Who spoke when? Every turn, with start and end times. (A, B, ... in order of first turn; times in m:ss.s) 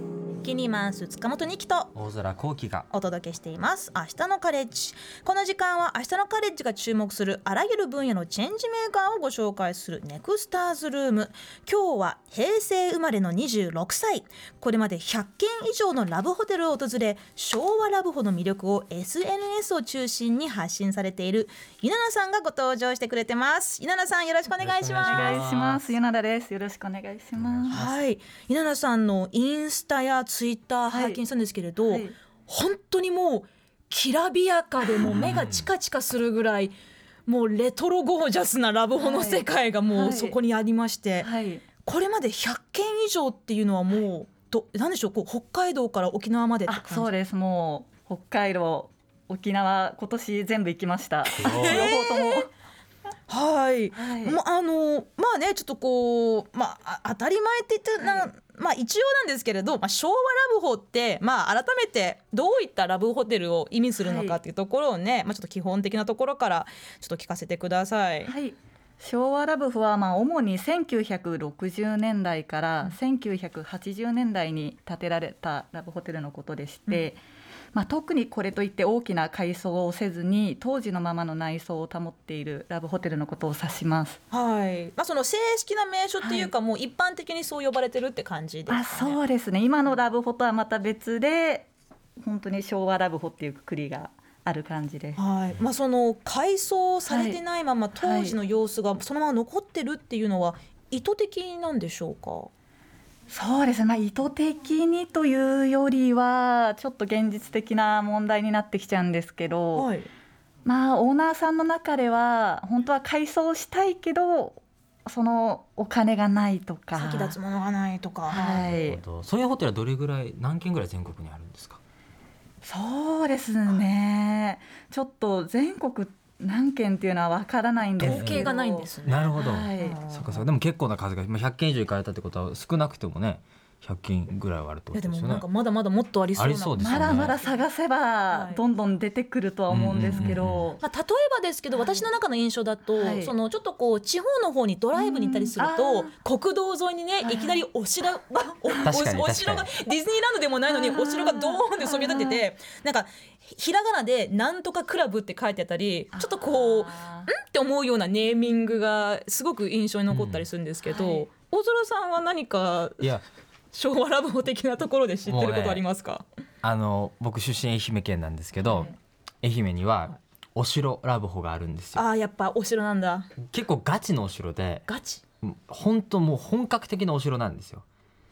0:00.4-0:01.9 A
0:01.9-0:02.9 B
0:02.9-0:25.4 A
0:24.6-0:25.8 B
0:25.0-0:27.8 C
0:27.4-0:27.9 B
0:27.7-0:36.7 A
0:30.9-0:31.2 C
0:31.8-0:32.2 C
0:35.0-0:35.7 B
0:37.2-0:41.3 A
0:39.0-0:40.4 C
0:41.2-0:41.6 C
0:41.8-0:47.1 A
0:46.7-0:52.5 C
0:51.4-0:52.5 A
0:51.4-0:51.9 B
0:53.3-1:08.3 A
0:53.9-0:54.4 C
0:58.0-0:58.3 C
1:04.0-1:04.4 C
1:08.2-1:17.2 C
1:17.7-1:24.2 C
1:24.3-1:29.2 A
1:26.2-1:26.5 C
1:28.7-1:35.2 C
1:35.2-1:42.5 A
1:37.1-1:37.4 C
1:38.0-1:38.4 C
1:43.3-1:49.9 C
1:49.7-1:50.1 A
1:50.6-1:57.4 C
1:56.9-1:58.6 A
1:58.3-1:59.0 C
1:58.5-2:01.8 B
2:02.6-2:10.0 C
2:08.0-2:08.5 B
2:08.0-2:10.4 A
2:09.0-2:15.4 B
2:14.9-2:17.6 A
2:16.4-2:17.3 B
2:16.8-2:20.8 C
2:18.3-2:18.6 A
2:19.7-2:20.7 B
2:20.8-2:43.1 A
2:22.9-2:23.3 C
2:25.0-2:26.1 C
2:27.2-2:27.6 C
2:28.8-2:29.7 B
2:30.7-2:32.4 C
2:36.1-2:37.3 C
2:40.1-2:40.5 B
2:40.9-2:41.3 C
2:43.7-2:46.2 A
2:45.3-2:45.8 B
2:46.6-2:52.0 B
2:48.6-2:48.9 A
2:51.9-2:53.3 A
2:53.4-2:54.8 B
2:54.9-2:55.2 A
2:55.4-2:57.8 B